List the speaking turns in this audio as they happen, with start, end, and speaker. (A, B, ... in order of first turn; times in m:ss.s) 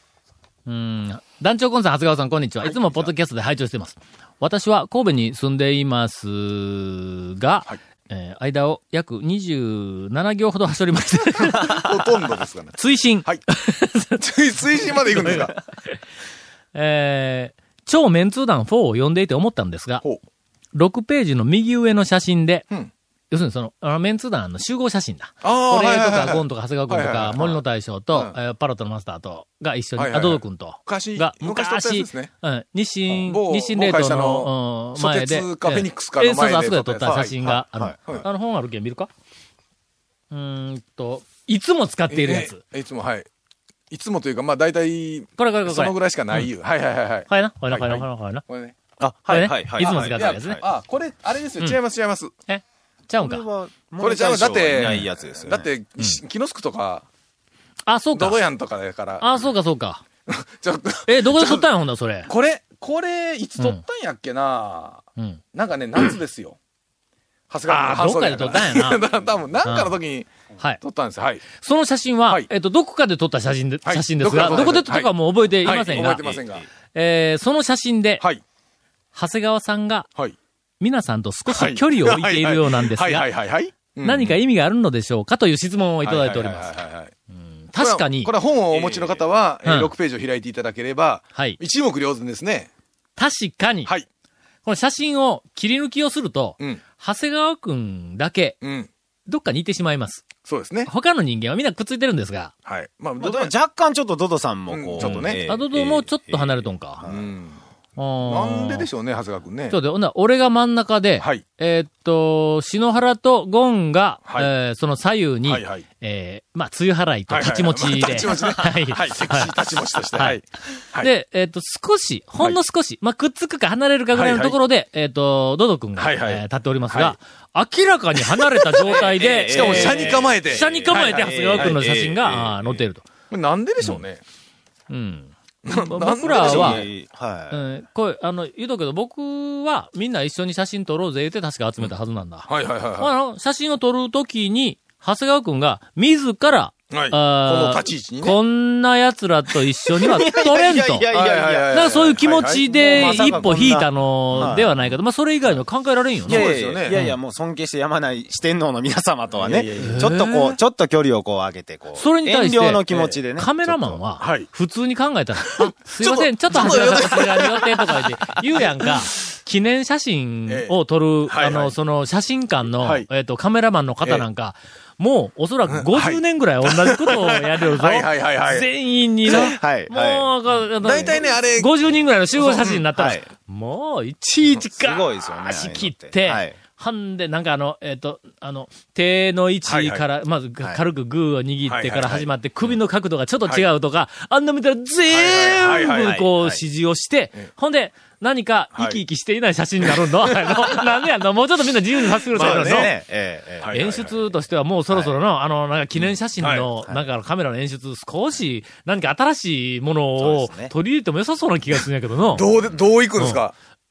0:00.7-0:16.0 A
0:11.5-0:13.4 B
0:14.2-0:15.6 B
0:16.7-0:20.0 A
0:20.7-0:22.7 A
0:23.3-0:39.1 A
0:25.4-0:27.6 B
0:30.0-0:32.3 B
0:33.1-0:38.2 B
0:37.1-0:38.0 C
0:40.3-0:42.6 A
0:42.1-0:43.2 B
0:43.9-0:48.8 B
0:45.4-0:46.5 A
0:47.3-0:48.4 A
0:49.0-0:50.6 C
0:49.3-0:50.6 A
0:49.8-0:52.3 B
0:52.5-0:53.4 A
0:53.2-0:55.7 C
0:54.0-0:57.0 B
0:54.8-0:55.1 A
0:57.9-0:58.5 A
0:58.1-0:59.2 B
0:59.2-1:00.0 A
1:00.3-1:01.6 B
1:01.1-1:02.3 A
1:02.3-1:06.6 B
1:07.5-1:10.3 B
1:07.7-1:09.0 A
1:09.6-1:10.0 A
1:10.8-1:11.4 B
1:11.5-1:16.4 A
1:13.8-1:15.1 B
1:14.4-1:14.8 C
1:15.6-1:16.6 B
1:15.9-1:16.6 C
1:16.9-1:18.2 A
1:19.2-1:20.1 A
1:20.8-1:23.2 A
1:21.5-1:24.4 B
1:23.8-1:26.7 A
1:26.0-1:27.1 B
1:27.4-1:28.3 A
1:27.8-1:32.7 B
1:28.7-1:29.2 C
1:29.6-1:29.9 A
1:31.3-1:31.6 A
1:33.2-1:33.9 A
1:34.6-1:38.6 A
1:38.6-1:38.9 B
1:39.3-1:40.2 A
1:40.4-1:40.9 B
1:40.9-1:42.5 A
1:42.7-1:43.5 B
1:43.2-1:47.3 C
1:44.7-1:45.4 B
1:45.0-1:47.0 A
1:47.0-1:47.6 B
1:48.0-1:48.9 A
1:48.2-1:49.8 B
1:49.7-1:59.6 A
1:55.4-1:55.8 B
1:57.3-2:01.1 B
2:00.1-2:00.4 A
2:01.0-2:13.1 A
2:04.1-2:04.6 B
2:06.0-2:07.2 B
2:08.2-2:11.8 B
2:08.9-2:12.8 C
2:13.3-2:14.2 B
2:14.9-2:16.8 A
2:15.7-2:16.9 B
2:16.2-2:17.6 C
2:17.5-2:31.1 A
2:22.5-2:23.1 B
2:26.9-2:28.4 B
2:30.1-2:31.9 C
2:31.1-2:33.6 B
2:31.7-2:37.2 A
2:32.7-2:34.8 C
2:34.3-2:34.8 B
2:36.2-2:37.0 B
2:36.2-2:44.0 C
2:39.3-2:40.1 B
2:39.8-2:40.5 A
2:41.9-3:22.9 A
2:44.2-2:44.5 B
2:45.6-2:47.9 B
2:48.6-2:48.9 B
2:50.5-2:50.7 B
2:51.3-2:51.7 B
2:52.8-2:53.1 B
2:55.7-2:58.7 B
2:59.2-2:59.5 B
2:59.3-3:00.3 C
3:00.8-3:01.7 B
3:02.4-3:02.8 B
3:03.0-3:03.2 C
3:04.8-3:06.6 C
3:09.7-3:10.0 B
3:11.7-3:12.3 B
3:15.1-3:16.2 B
3:15.7-3:16.6 C
3:22.3-3:22.9 B
3:22.4-3:23.8 C
3:23.6-3:24.2 B
3:23.7-3:32.5 A
3:26.4-3:26.7 B
3:30.2-3:30.7 C
3:32.4-3:33.5 B